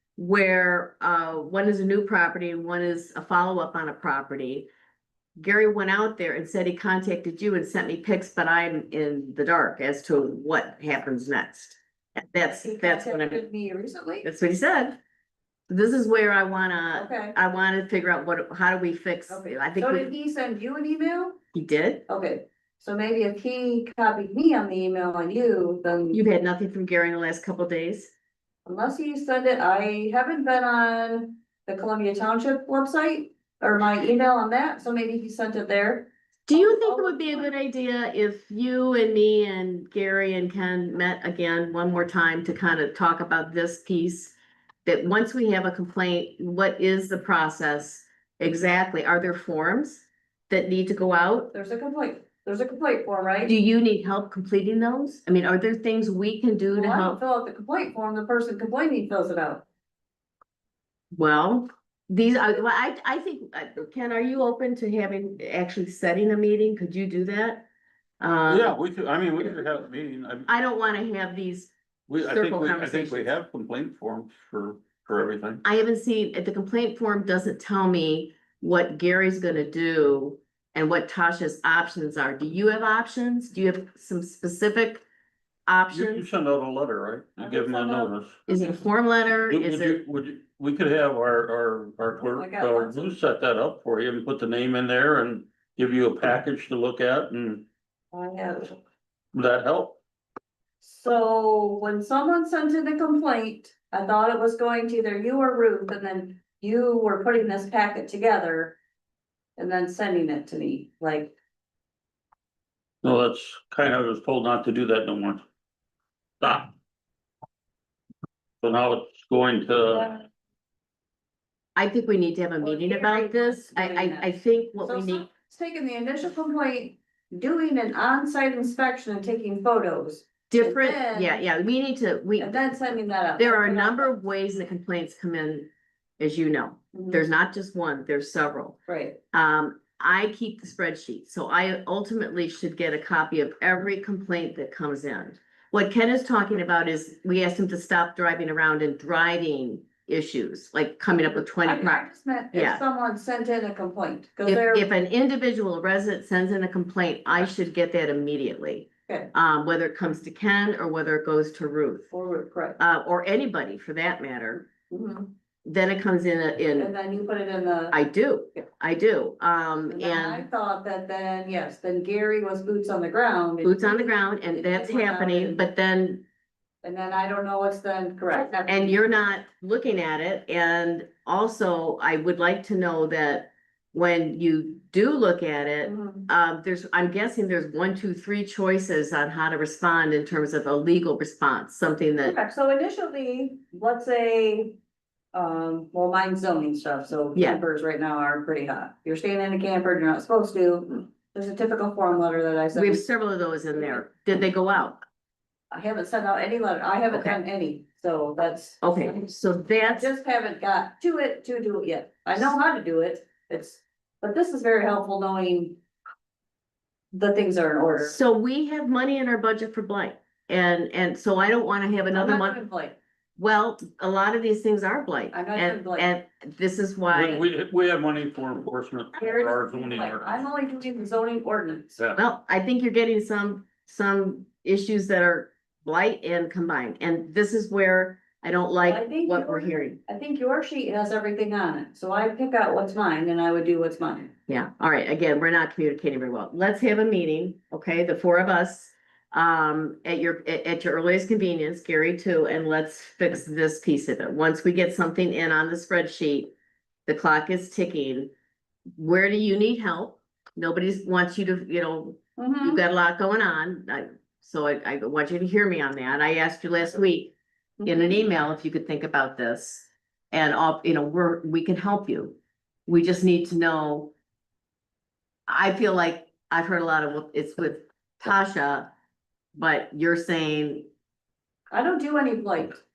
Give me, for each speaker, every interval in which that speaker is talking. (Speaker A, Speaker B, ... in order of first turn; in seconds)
Speaker A: 0.2-4.7, 5.4-13.4, 14.2-15.0, 15.7-20.1, 21.5-22.1, 26.1-28.1, 36.5-51.5, 53.5-57.2, 61.1-67.7, 68.2-68.8, 70.5-73.3, 75.6-85.0, 85.7-86.3, 88.5-90.0, 121.8-125.3, 130.5-132.6, 133.4-138.8, 139.3-152.8, 154.4-162.1, 162.8-164.7, 165.7-166.9, 167.9-170.5, 173.6-176.2, 178.7-192.4, 197.3-197.6, 202.7-205.0, 207.1-207.4, 208.8-210.1, 218.0-222.6, 223.4-227.5, 229.2-229.7, 232.2-240.0, 244.5-256.5, 257.1-258.3, 259.0-274.1, 275.5-278.9, 279.5-280.9
Speaker B: 12.6-14.3, 16.9-17.4, 19.3-21.4, 22.1-26.2, 28.7-37.5, 51.5-53.5, 56.7-59.6, 87.4-88.7, 92.3-93.1, 98.1-98.8, 100.8-108.8, 109.6-111.4, 119.9-120.2, 122.6-124.3, 124.8-131.4, 132.4-134.1, 136.9-137.2, 138.9-139.2, 151.5-154.9, 159.1-159.3, 162.1-162.8, 164.9-165.3, 166.8-167.9, 169.9-175.7, 176.8-179.1, 185.8-186.3, 192.2-194.8, 195.3-203.0, 205.7-209.3, 209.8-215.8, 217.1-218.2, 222.1-223.0, 225.3-226.1, 229.2-232.0, 238.8-244.3, 262.4-262.8, 281.7-282.8
Speaker C: 68.5-70.5, 72.1-75.6, 85.9-88.4, 89.5-97.7, 99.3-100.0, 113.0-115.5, 116.4-116.7, 118.6-120.1, 227.1-230.4